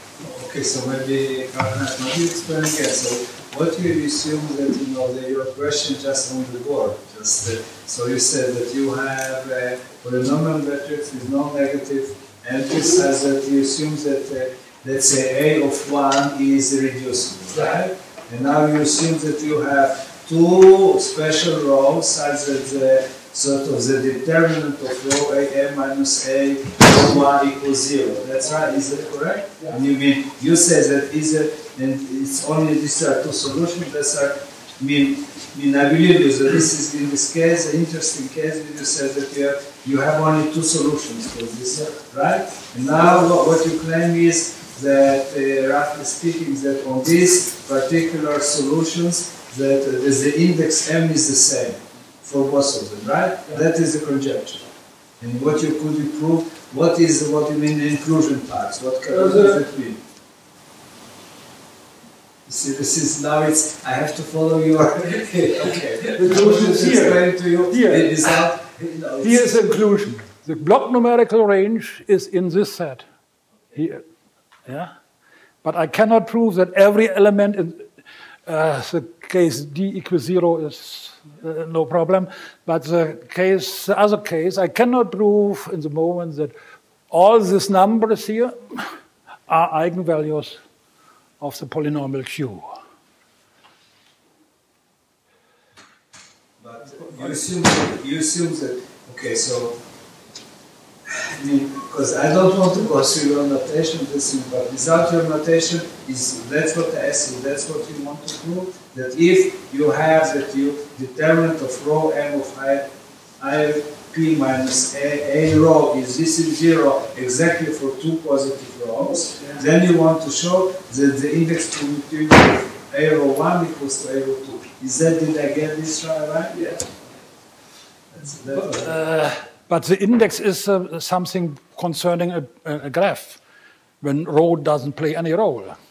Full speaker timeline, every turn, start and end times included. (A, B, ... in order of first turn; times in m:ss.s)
0:00.2-0:54.7 A
0:55.2-1:00.0 A
0:59.1-0:59.6 B
1:02.4-1:09.5 A
1:06.1-1:08.4 B
1:09.2-1:13.0 B
1:13.7-1:14.0 B
1:14.6-1:14.9 B
1:15.6-1:17.9 B
1:18.4-1:26.5 B
1:27.1-1:28.9 B
1:29.5-1:30.6 B
1:31.4-1:32.7 B
1:36.6-1:39.8 A
1:37.0-1:37.3 B
1:41.0-2:06.7 A
2:08.1-2:09.0 A
2:08.5-2:13.4 B
2:14.0-2:15.8 B